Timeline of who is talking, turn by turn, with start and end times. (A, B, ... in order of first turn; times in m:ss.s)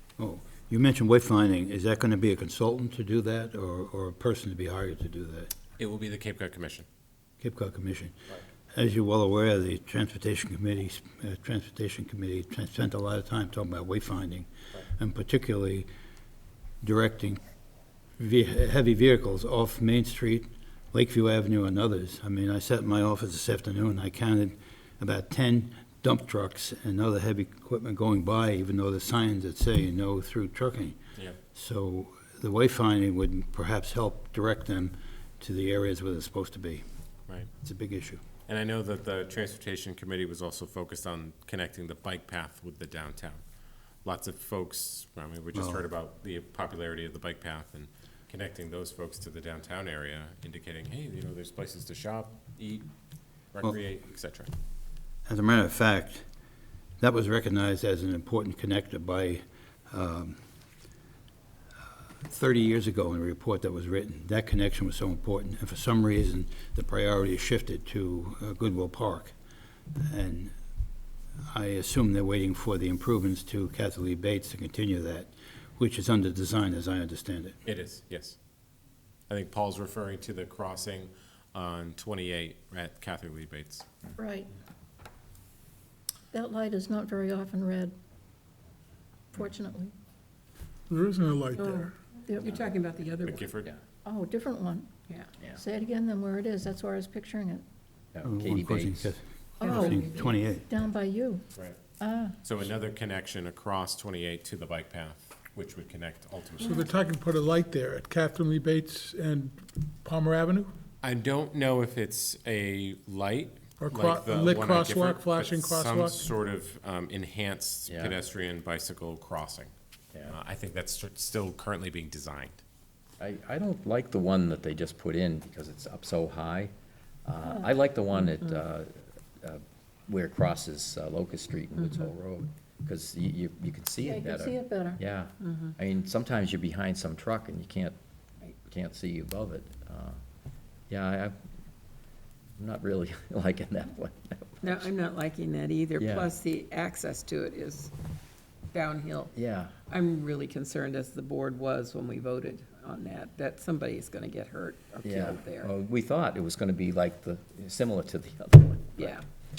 0:00.2-0:05.5 A
0:05.8-0:06.9 B
0:07.4-0:08.2 A
0:08.7-0:15.9 A
0:16.8-0:17.4 A
0:18.2-0:31.0 A
0:31.5-0:36.8 A
0:37.6-0:38.2 A
0:38.5-0:43.4 B
0:44.0-0:52.9 B
0:45.5-0:45.8 A
0:53.5-0:54.5 B
0:55.3-0:56.2 A
0:57.0-1:00.4 A
1:02.2-1:09.4 A
1:10.0-1:10.5 A
1:11.5-1:17.6 A
1:17.7-1:18.4 B
1:19.3-1:23.8 B
1:24.2-1:24.5 C
1:26.3-1:28.0 C
1:29.3-1:29.9 C
1:30.9-1:31.9 D
1:31.6-1:33.4 E
1:32.4-1:32.7 F
1:33.2-1:33.7 B
1:34.0-1:34.9 C
1:35.6-1:37.6 C
1:38.1-1:39.1 F
1:38.2-1:40.7 A
1:39.6-1:41.4 C
1:39.6-1:40.2 E
1:42.0-1:42.4 C
1:42.4-1:46.8 B
1:46.6-1:50.7 D
1:51.0-1:59.7 B
1:53.8-1:56.3 D
1:57.9-1:58.2 F
2:00.3-2:02.6 B
2:03.2-2:06.7 F
2:07.2-2:18.0 F
2:11.8-2:12.1 E
2:14.0-2:15.0 C
2:15.4-2:15.8 E
2:18.6-2:20.2 F
2:20.9-2:21.4 F
2:22.6-2:24.9 F
2:24.6-2:27.9 E
2:26.0-2:26.3 F
2:28.7-2:35.7 E
2:29.3-2:29.8 F
2:35.0-2:39.2 F
2:39.0-2:39.2 E